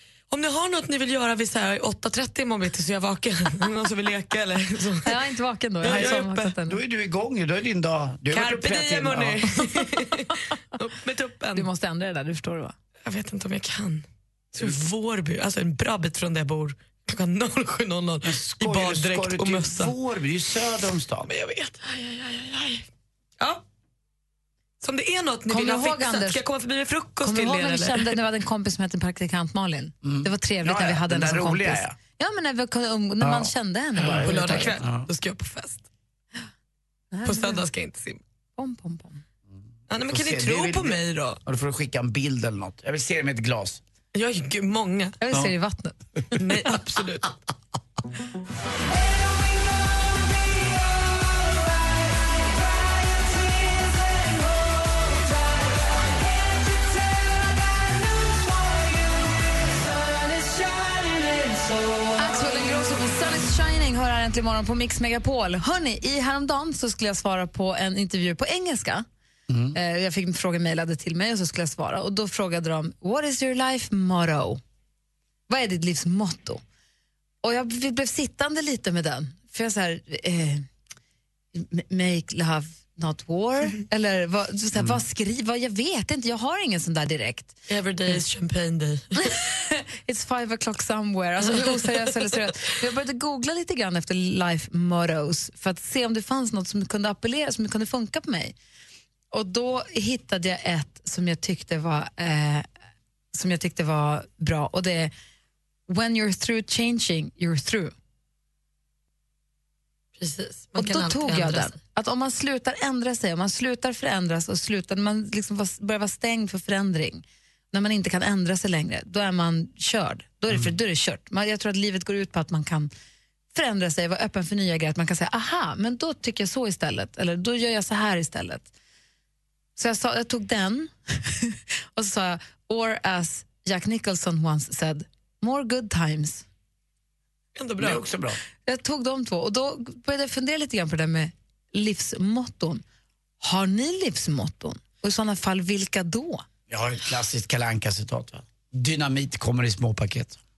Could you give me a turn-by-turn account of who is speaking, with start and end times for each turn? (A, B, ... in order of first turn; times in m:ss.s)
0:00.3-0:05.2 A
0:05.0-0:06.8 B
0:05.8-0:06.5 A
0:05.8-0:09.4 C
0:08.3-0:11.7 A
0:11.6-0:12.8 B
0:13.0-0:20.0 A
0:18.2-0:21.3 C
0:21.3-0:22.9 A
0:24.8-0:28.2 A
0:25.5-0:26.4 B
0:27.2-0:34.8 B
0:30.0-0:32.0 C
0:33.2-0:35.1 C
0:34.1-0:35.8 A
0:37.1-0:37.6 B
0:37.2-0:38.2 A
0:38.6-0:39.2 B
0:39.9-0:41.4 A
0:40.1-0:43.8 C
0:44.1-0:45.2 A
0:45.2-0:46.0 B
0:46.4-0:47.3 A
1:02.1-1:09.1 B
1:09.5-1:09.8 C
1:09.7-1:14.6 B
1:15.5-1:16.6 B
1:17.4-1:20.7 B
1:21.5-1:27.6 B
1:27.7-1:29.3 A
1:29.2-1:38.5 B
1:39.3-1:42.7 B
1:43.3-1:45.1 B
1:45.9-1:47.9 B
1:50.2-1:51.8 A
1:50.8-2:02.9 B
2:03.5-2:08.7 B
2:09.8-2:16.4 B
2:17.6-2:18.0 A
2:17.8-2:18.4 C
2:18.7-2:22.8 B
2:23.4-2:26.4 B
2:26.7-2:30.4 C